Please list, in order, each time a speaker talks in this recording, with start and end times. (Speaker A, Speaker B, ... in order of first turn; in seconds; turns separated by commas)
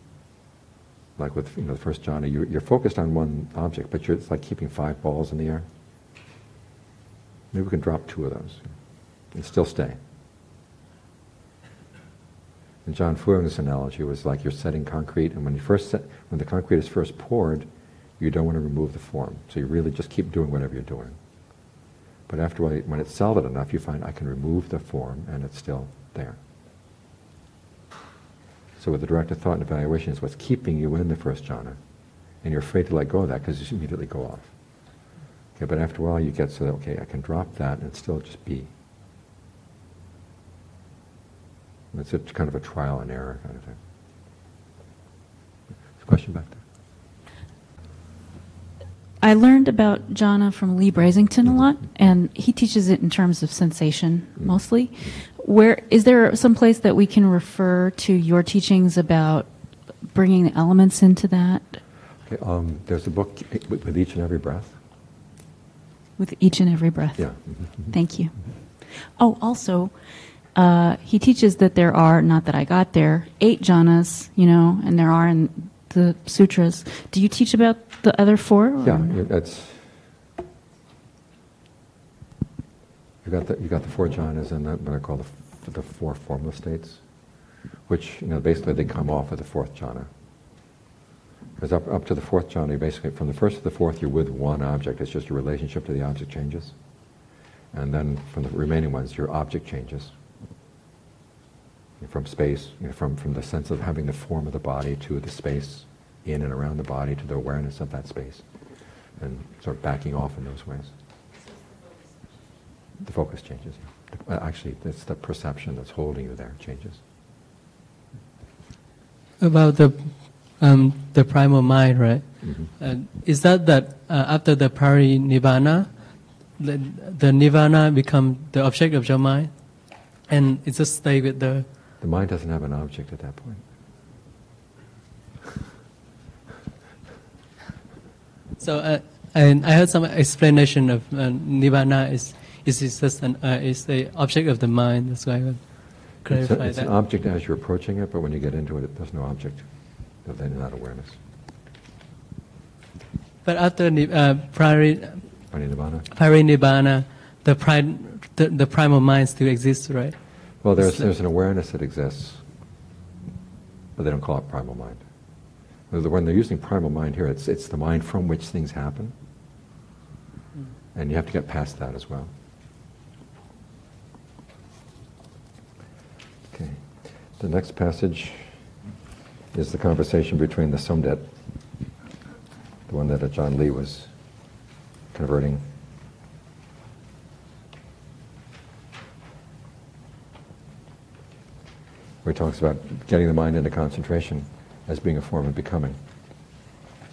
Speaker A: 1.2-5.7, Speaker A: 7.5-8.7, Speaker A: 9.3-10.0, Speaker A: 12.9-17.7, Speaker A: 18.2-21.2, Speaker A: 22.3-26.4, Speaker A: 28.8-31.8, Speaker A: 32.4-34.5, Speaker A: 35.6-38.7, Speaker A: 41.9-43.8, Speaker A: 46.0-46.6, Speaker B: 49.2-61.8, Speaker A: 62.3-64.8, Speaker B: 66.2-79.2, Speaker A: 67.2-68.0, Speaker A: 78.8-79.9, Speaker A: 83.2-87.0, Speaker A: 87.9-90.1, Speaker A: 91.6-96.8, Speaker A: 97.7-100.1, Speaker A: 102.0-108.5, Speaker A: 109.2-110.9, Speaker A: 113.0-117.0, Speaker C: 119.4-131.7, Speaker A: 122.4-122.7, Speaker A: 132.0-133.6, Speaker C: 138.6-146.9, Speaker A: 146.3-149.7, Speaker A: 150.2-151.2, Speaker C: 153.4-155.5, Speaker A: 155.5-156.1, Speaker C: 156.1-161.1, Speaker A: 160.6-162.4, Speaker A: 164.0-165.0, Speaker A: 165.9-169.1, Speaker A: 170.9-172.3, Speaker A: 176.5-176.8, Speaker A: 177.4-178.5, Speaker A: 179.5-181.3, Speaker A: 182.9-184.1, Speaker A: 185.1-185.6, Speaker A: 192.2-196.0